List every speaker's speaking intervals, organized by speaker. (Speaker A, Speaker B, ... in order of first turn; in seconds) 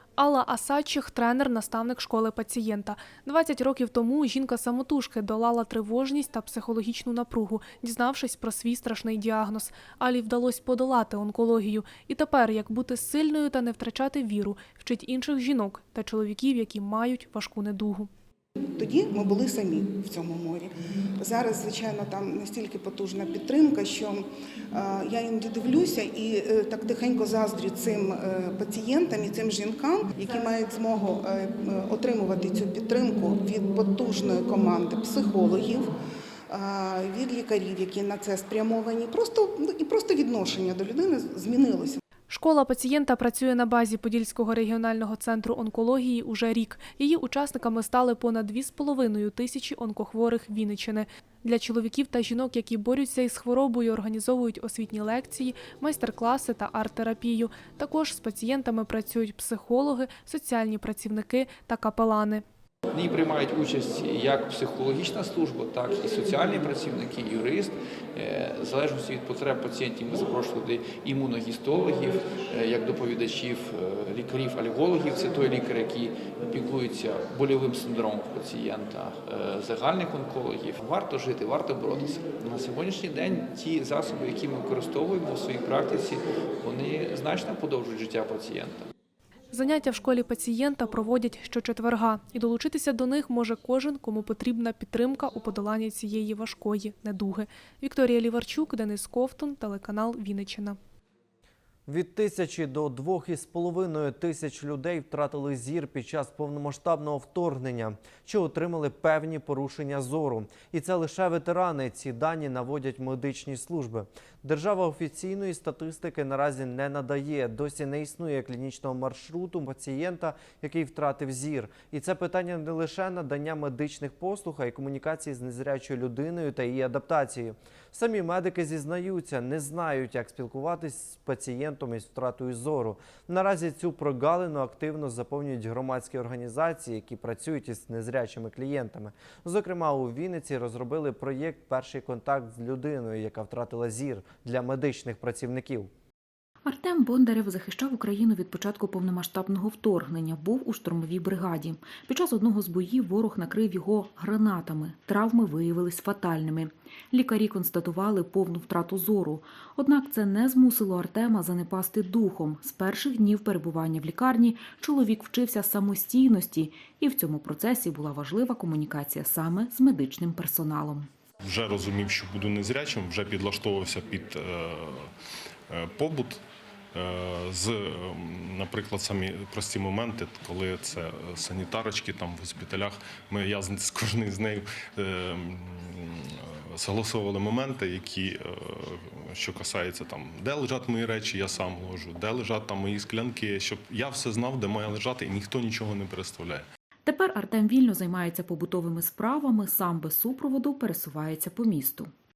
Speaker A: 0.2-18.1, 42.3-62.4, 89.5-100.8
Speaker B: 18.8-35.9, 36.5-42.0
Speaker C: 62.9-88.9
Speaker D: 101.9-145.9
Speaker E: 146.6-171.1, 197.0-202.1
Speaker F: 171.4-175.1, 175.7-196.7